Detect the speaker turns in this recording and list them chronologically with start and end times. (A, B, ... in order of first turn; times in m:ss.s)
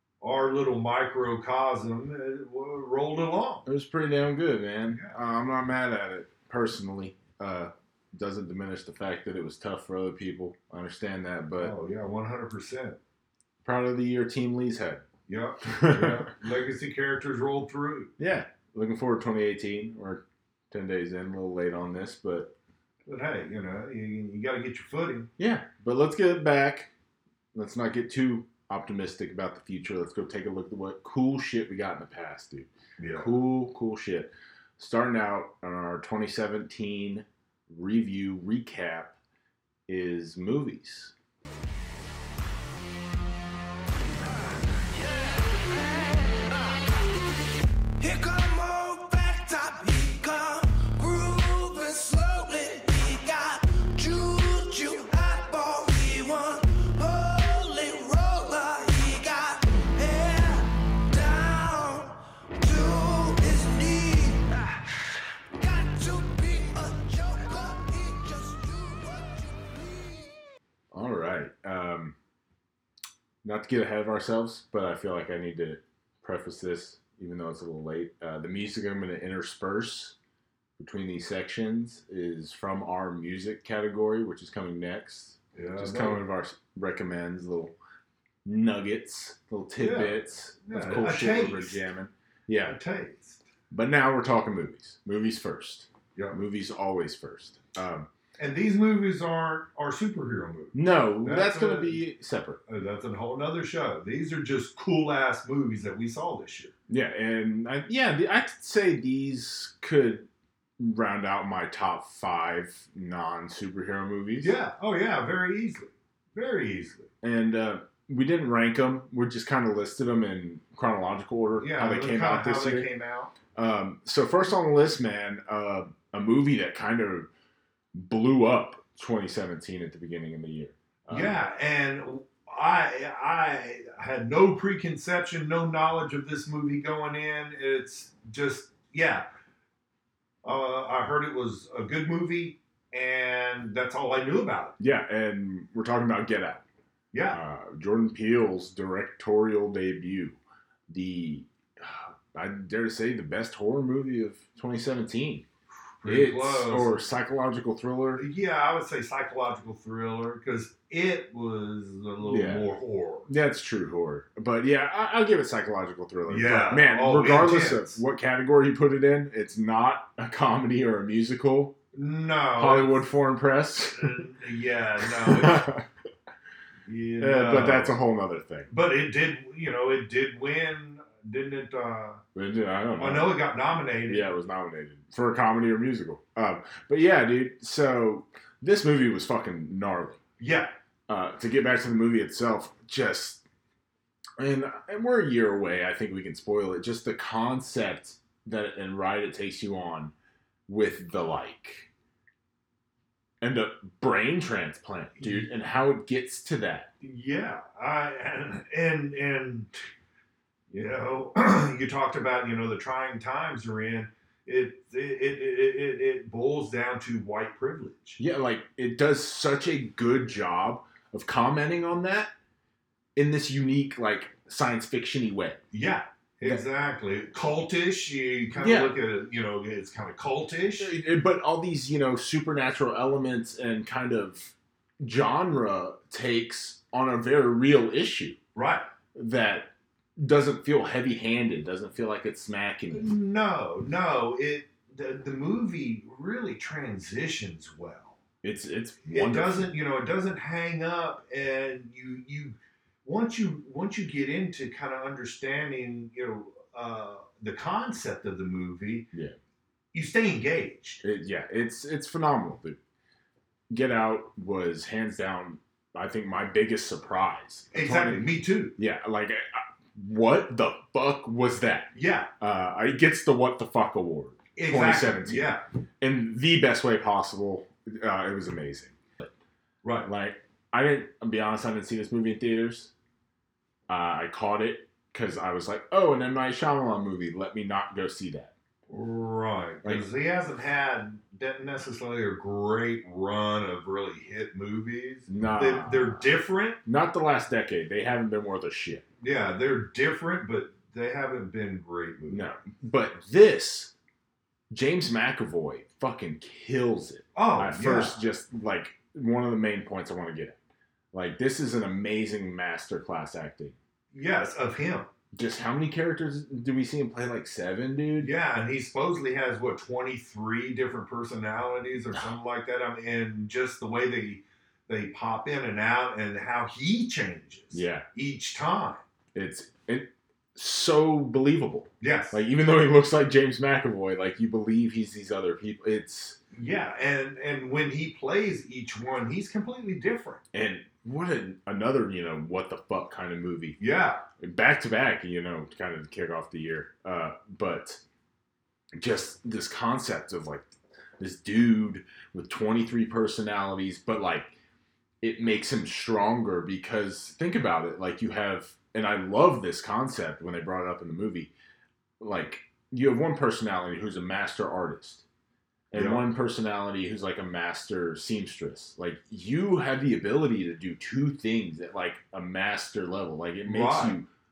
0:00.2-0:03.7 A
0:03.7-0:11.7 B
0:04.9-0:05.2 A
0:11.6-0:13.0 A
0:13.6-0:15.0 B
0:15.3-0:18.1 A
0:15.6-0:16.3 B
0:18.2-0:22.5 B
0:23.1-0:25.3 A
0:25.4-0:26.9 B
0:27.5-0:39.2 B
0:33.0-0:33.3 A
0:39.9-0:41.1 B
0:44.3-1:04.8 C
1:05.6-1:10.4 C
1:10.9-1:12.2 B
1:13.4-1:20.2 B
1:20.8-1:27.8 B
1:25.5-1:26.2 A
1:28.4-1:32.8 B
1:29.8-1:31.8 A
1:32.7-1:33.4 A
1:33.7-1:38.1 B
1:38.4-1:42.0 A
1:40.7-1:42.6 B
1:42.7-1:46.7 A
1:46.9-1:50.3 B
1:50.8-1:54.6 B
1:54.4-1:57.1 A
1:57.2-2:02.9 B
2:01.6-2:03.3 A
2:03.6-2:07.3 B
2:07.9-2:11.4 B
2:11.1-2:19.2 A
2:20.4-2:24.8 A
2:24.8-2:26.6 B
2:27.1-2:27.4 A
2:27.3-2:30.4 B
2:30.9-2:35.4 B
2:36.0-2:37.0 A
2:36.0-2:38.2 B
2:38.2-2:43.3 A
2:42.3-2:42.7 B
2:43.3-2:51.7 B
2:46.3-2:48.0 A
2:51.9-2:53.0 A
2:52.6-2:54.2 B
2:54.0-2:55.7 A
2:55.1-2:55.9 B
2:56.9-2:58.0 A
2:57.2-2:58.7 B
2:58.7-3:02.2 A
3:02.4-3:03.4 B
3:03.0-3:04.3 A
3:04.1-3:10.2 B
3:10.4-3:10.7 A
3:11.1-3:13.4 B
3:14.4-3:20.1 B
3:20.7-3:21.9 B
3:23.4-3:26.9 B
3:25.2-3:25.5 A
3:27.0-3:29.8 A
3:30.7-3:38.2 A
3:38.2-3:42.3 B
3:43.2-3:45.6 B
3:45.7-3:50.9 A
3:48.6-3:49.0 B
3:50.8-3:58.4 B
3:58.6-3:58.9 A
3:59.2-4:03.1 B
4:02.9-4:08.2 A
4:08.4-4:09.7 B
4:09.0-4:19.1 A
4:19.9-4:21.0 A
4:21.0-4:22.8 B
4:23.7-4:39.3 B
4:27.7-4:28.8 A
4:31.9-4:32.3 A
4:34.6-4:35.6 A
4:39.8-4:40.1 A
4:40.0-4:42.9 B
4:43.9-4:48.5 B
4:48.9-4:56.8 A
4:55.3-4:56.3 B
4:56.8-4:59.0 B
4:59.2-5:02.5 A
5:02.3-5:03.9 B
5:04.7-5:10.6 B
5:07.4-5:08.2 A
5:11.1-5:13.8 B
5:14.1-5:15.1 A
5:15.3-5:18.3 B
5:18.2-5:29.0 A
5:27.7-5:28.0 B
5:29.4-5:36.4 B
5:32.0-5:32.4 A
5:36.5-5:40.4 A
5:40.5-5:43.8 B
5:43.8-5:44.2 A
5:44.4-5:48.0 B
5:49.0-5:54.5 B
5:55.2-6:01.5 B
6:02.2-6:05.2 B
6:05.9-6:14.3 B
6:05.9-6:06.2 A
6:13.7-6:14.2 A